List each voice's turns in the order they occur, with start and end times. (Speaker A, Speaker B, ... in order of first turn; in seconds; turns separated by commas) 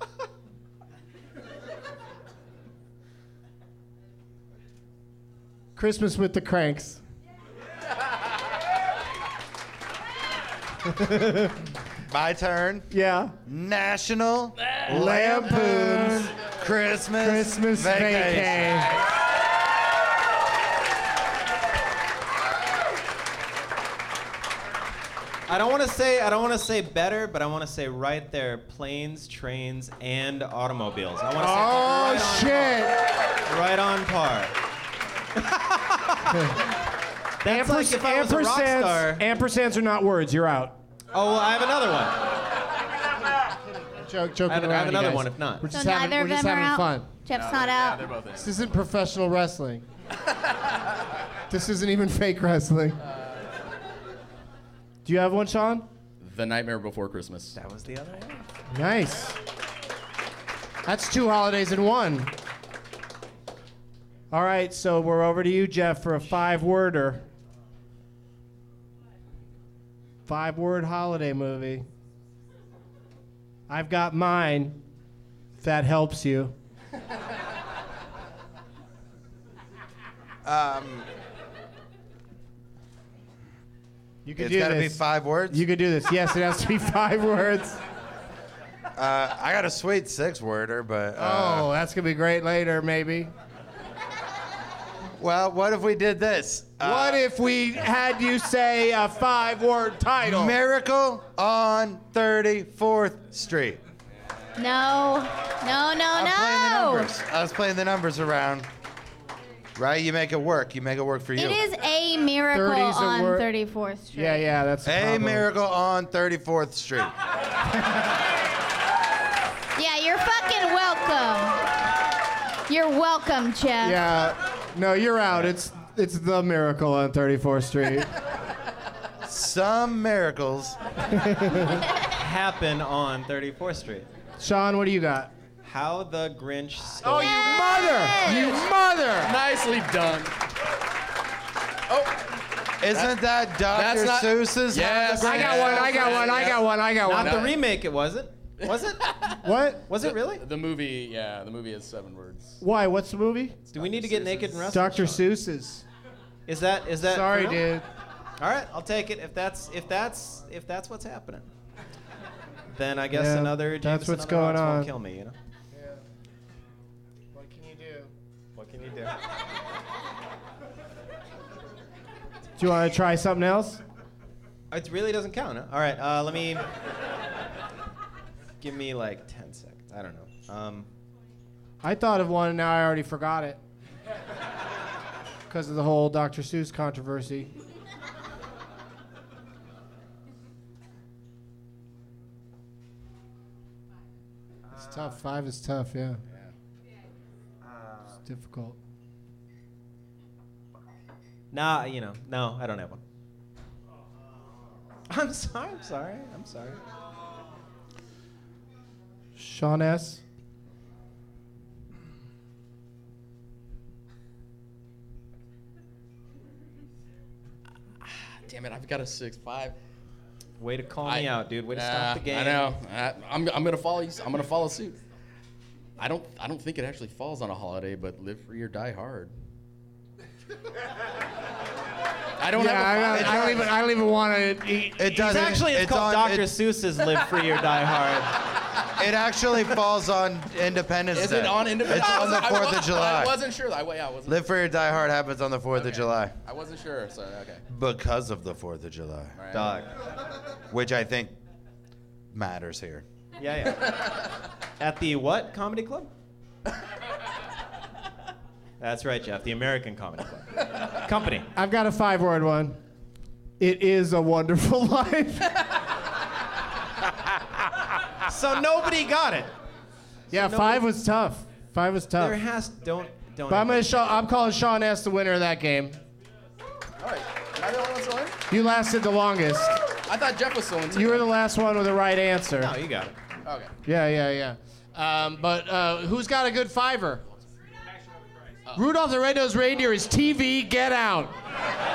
Speaker A: 5.8-7.0, Speaker A: 10.9-11.6, Speaker B: 12.1-12.9, Speaker A: 12.9-13.3, Speaker B: 13.4-18.8, Speaker A: 14.9-16.3, Speaker A: 17.2-18.9, Speaker C: 25.5-32.9, Speaker A: 31.4-33.0, Speaker C: 33.4-34.5, Speaker C: 35.3-36.5, Speaker C: 37.4-39.2, Speaker A: 37.4-40.8, Speaker C: 41.1-42.2, Speaker A: 44.0-47.1, Speaker C: 44.5-45.6, Speaker D: 45.7-48.1, Speaker E: 47.3-48.6, Speaker A: 48.4-49.8, Speaker A: 51.5-53.0, Speaker A: 55.0-55.9, Speaker E: 56.2-57.5, Speaker C: 57.5-58.4, Speaker A: 58.7-59.4, Speaker A: 60.9-62.3, Speaker A: 64.3-67.2, Speaker A: 70.2-71.9, Speaker A: 73.7-74.8, Speaker A: 75.6-76.5, Speaker B: 80.4-81.1, Speaker A: 84.2-87.8, Speaker B: 84.4-85.6, Speaker B: 89.0-91.7, Speaker A: 91.2-93.3, Speaker B: 95.2-97.2, Speaker A: 96.8-100.6, Speaker B: 100.2-103.8, Speaker D: 104.6-107.1, Speaker B: 106.1-108.7, Speaker B: 109.8-111.6, Speaker D: 111.3-114.4, Speaker A: 112.5-113.5, Speaker A: 114.1-115.5, Speaker B: 114.8-117.1, Speaker D: 119.8-121.6, Speaker D: 122.7-124.0, Speaker A: 123.8-128.1, Speaker B: 129.2-130.8, Speaker A: 131.1-131.8, Speaker C: 132.1-134.1, Speaker A: 134.4-135.3, Speaker C: 135.6-137.4, Speaker A: 137.0-139.3, Speaker D: 137.1-138.6, Speaker E: 139.2-140.3, Speaker E: 141.9-142.2, Speaker B: 142.8-146.2, Speaker E: 142.9-147.6, Speaker A: 145.2-147.5, Speaker C: 147.0-149.2, Speaker E: 148.7-149.4, Speaker A: 149.4-149.8, Speaker C: 149.9-150.4, Speaker E: 150.0-152.6, Speaker A: 152.6-153.6, Speaker E: 153.7-154.7, Speaker C: 153.7-155.2, Speaker A: 154.7-155.8, Speaker C: 156.5-157.7, Speaker A: 157.0-157.8, Speaker C: 158.4-161.5, Speaker C: 162.7-165.3, Speaker A: 163.1-164.9, Speaker A: 165.7-166.0, Speaker A: 167.3-168.1, Speaker C: 168.5-169.1, Speaker A: 172.6-173.8, Speaker C: 174.7-176.7, Speaker C: 178.6-180.9, Speaker A: 181.8-183.6, Speaker A: 185.5-187.5, Speaker A: 194.7-196.2, Speaker A: 198.2-198.8, Speaker C: 201.5-203.0, Speaker C: 205.1-206.8, Speaker A: 209.3-210.2, Speaker E: 218.1-219.8, Speaker C: 220.6-222.7, Speaker E: 221.0-225.0, Speaker E: 226.0-229.3, Speaker E: 232.4-233.7, Speaker A: 232.6-235.6, Speaker B: 233.2-233.5, Speaker B: 235.0-236.5, Speaker C: 235.1-238.4, Speaker B: 239.0-243.3, Speaker E: 241.1-244.4, Speaker B: 244.3-246.3, Speaker E: 245.8-247.6, Speaker B: 247.7-249.3, Speaker E: 249.3-249.8, Speaker C: 249.5-249.9, Speaker B: 250.7-251.3, Speaker B: 252.3-253.0, Speaker C: 253.4-254.1, Speaker C: 254.8-256.1, Speaker C: 258.8-261.5, Speaker A: 261.5-262.8, Speaker A: 263.6-265.6, Speaker C: 268.2-269.5, Speaker C: 270.3-270.8, Speaker A: 270.3-272.4, Speaker C: 272.2-274.3, Speaker A: 273.5-276.0, Speaker E: 277.0-278.4, Speaker A: 278.5-279.8, Speaker E: 280.1-281.3, Speaker A: 280.9-282.7, Speaker C: 282.6-283.1, Speaker E: 283.4-283.7, Speaker A: 283.8-287.2, Speaker A: 288.8-291.3